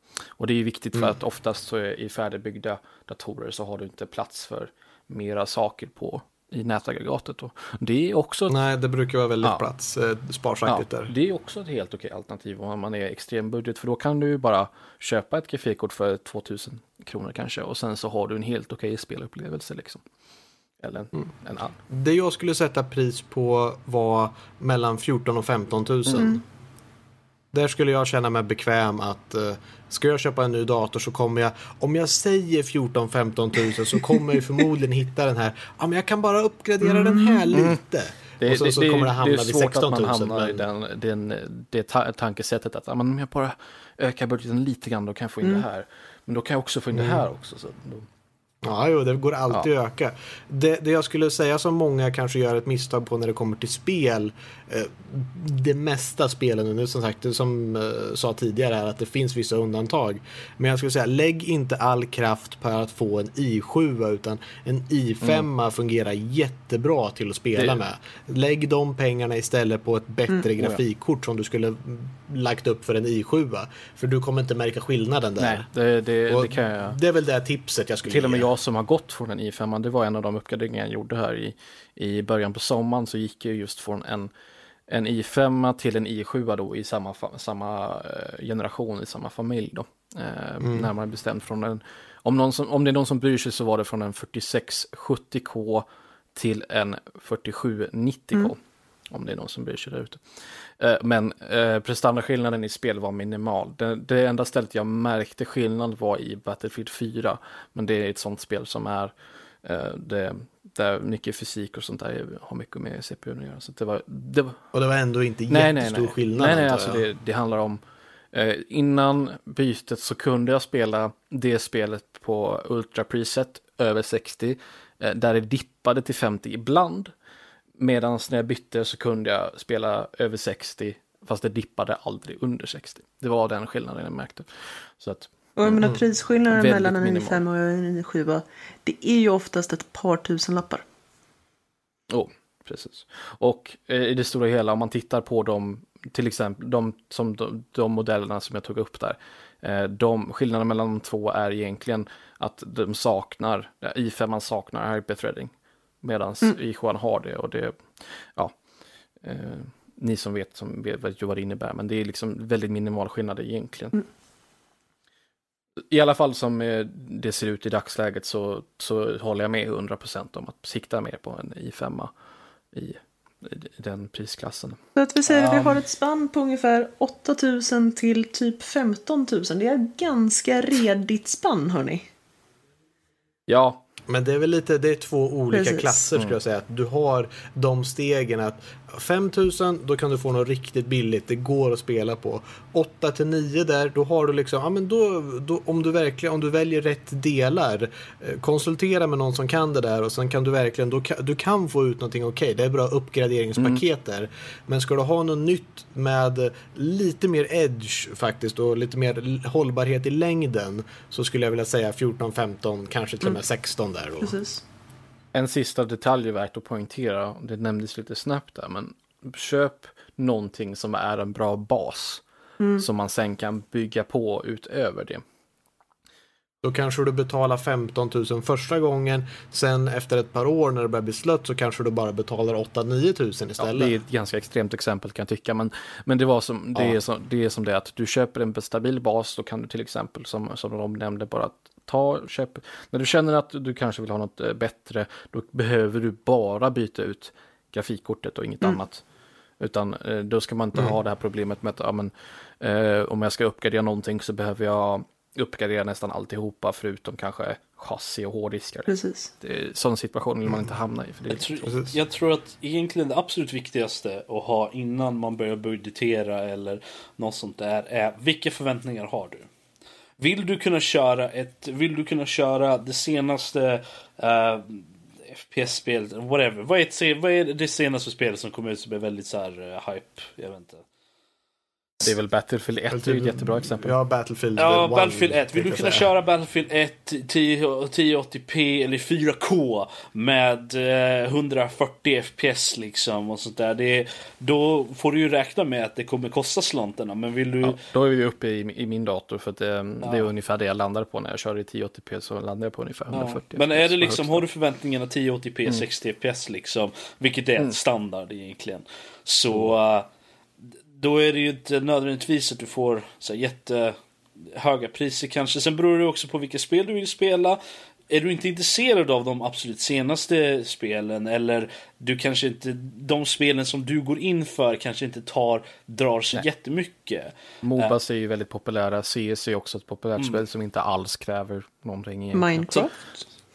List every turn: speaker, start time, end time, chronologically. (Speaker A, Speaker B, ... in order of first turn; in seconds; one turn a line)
Speaker A: 0.4-8.5
Speaker B: 8.5-11.1
Speaker A: 10.7-20.0
Speaker A: 20.8-21.8
Speaker B: 21.9-26.4
Speaker B: 27.5-40.6
Speaker C: 36.8-37.6
Speaker A: 37.5-37.8
Speaker A: 38.4-48.1
Speaker B: 46.9-47.2
Speaker B: 48.6-75.7
Speaker A: 75.4-77.0
Speaker B: 76.3-78.5
Speaker A: 78.1-84.3
Speaker A: 84.9-98.6
Speaker B: 90.6-90.9
Speaker A: 99.1-100.2
Speaker A: 100.8-114.6
Speaker B: 114.7-117.1
Speaker A: 115.5-117.8
Speaker A: 118.3-127.1
Speaker A: 127.8-135.9
Speaker C: 135.6-140.8
Speaker A: 136.5-137.4
Speaker A: 142.1-158.6
Speaker A: 159.2-164.0
Speaker A: 165.9-172.1
Speaker A: 172.7-174.8
Speaker C: 175.0-182.1
Speaker D: 175.3-175.7
Speaker A: 183.5-183.8
Speaker B: 184.1-214.3
Speaker C: 185.5-186.1
Speaker A: 203.6-203.8
Speaker C: 214.2-214.6
Speaker A: 215.3-222.2
Speaker C: 222.6-222.9
Speaker A: 222.8-225.2
Speaker B: 226.6-234.0
Speaker A: 233.6-249.0
Speaker A: 249.6-261.7
Speaker C: 258.9-259.3
Speaker D: 261.3-269.5
Speaker D: 270.2-280.8
Speaker A: 282.0-283.9
Speaker B: 282.9-286.1
Speaker D: 284.6-297.8
Speaker A: 297.6-304.4
Speaker D: 300.0-300.3
Speaker D: 303.1-310.1
Speaker D: 310.9-314.0
Speaker D: 314.5-327.9
Speaker A: 327.6-332.8
Speaker C: 332.3-333.0